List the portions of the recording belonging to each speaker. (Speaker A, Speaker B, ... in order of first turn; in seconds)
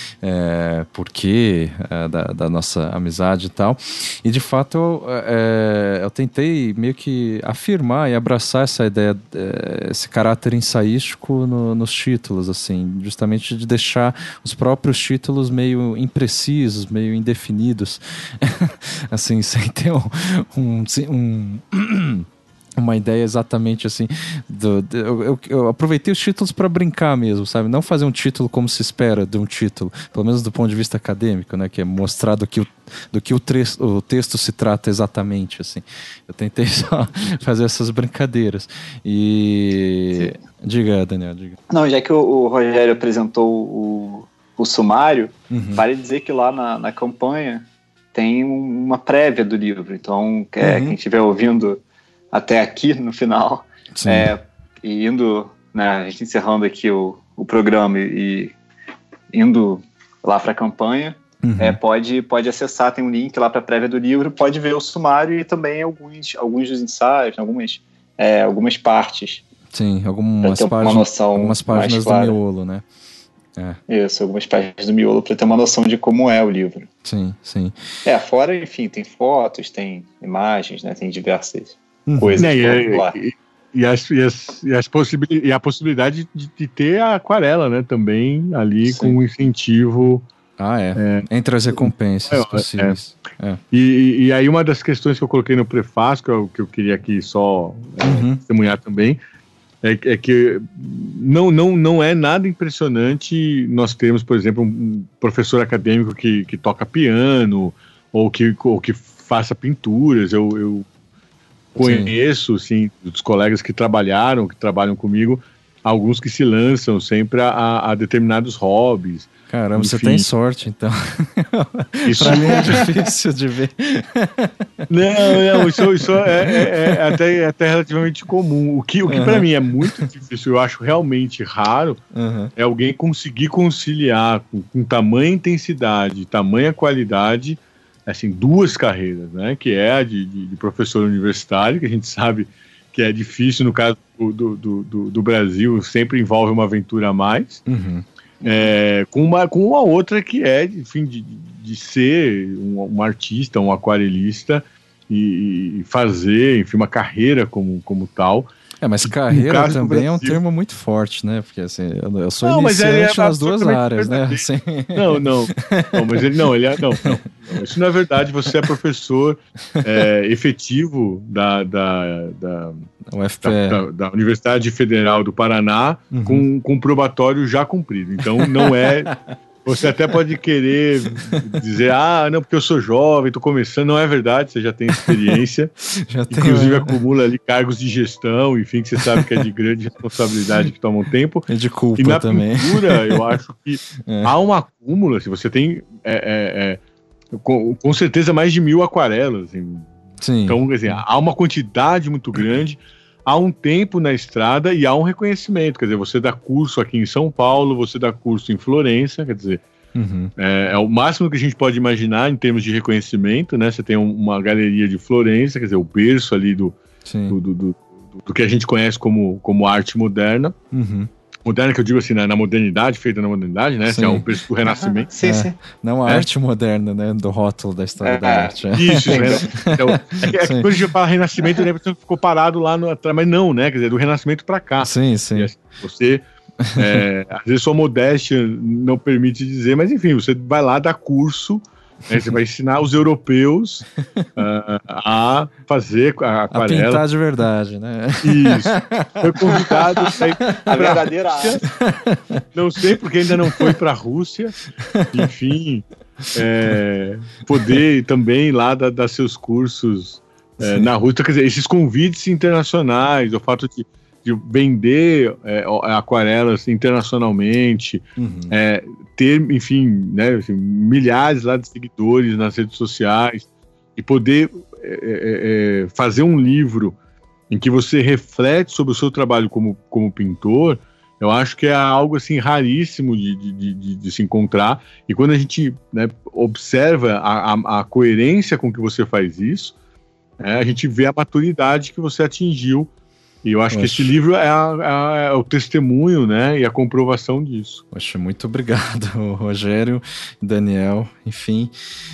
Speaker A: 0.2-41.6, 45.5-45.8, 50.6-51.0, 53.9-54.3, 61.4-61.8, 69.7-72.8, 77.0-77.8, 82.0-82.4, 90.6-93.6, 98.0-98.4, 111.8-112.1, 119.5-127.2, 129.1-129.9, 132.1-132.5, 147.7-148.1, 158.8-166.2, 166.9-167.6, 173.1-173.8, 176.1-176.5, 178.4-178.9, 184.9-185.3, 185.9-187.0, 189.0-189.4, 191.5-193.2, 194.1-194.3, 200.2-201.0, 209.9-210.3, 217.0-217.4, 220.7-221.1, 223.9-224.2, 225.2-230.8, 234.8-235.5, 236.6-237.0, 246.5-250.2, 251.7-252.4, 253.3-253.8, 254.9-255.3, 257.5-257.8, 260.6-260.9, 268.2-268.5, 293.7-294.1, 297.9-301.7
Speaker B: 41.7-51.8, 52.3-58.5, 59.3-69.4, 70.4-72.4, 73.9-76.9, 78.0-83.2, 88.8-89.1, 148.4-148.7, 224.8-225.6, 228.0-229.4, 250.7-251.6
Speaker C: 82.4-90.2, 91.0-93.0, 93.7-99.2, 99.8-110.9, 111.7-120.3, 122.0-122.9, 124.9-132.0, 132.6-147.6, 148.4-158.5, 159.0-160.4, 162.4-172.9, 173.4-185.7, 186.3-196.8, 197.3-199.9, 200.5-209.6, 210.4-216.8, 217.3-220.5, 221.4-225.1, 228.7-236.2, 236.8-247.0, 248.2-251.7, 252.5-277.0, 277.5-289.7, 290.4-292.9, 293.4-297.8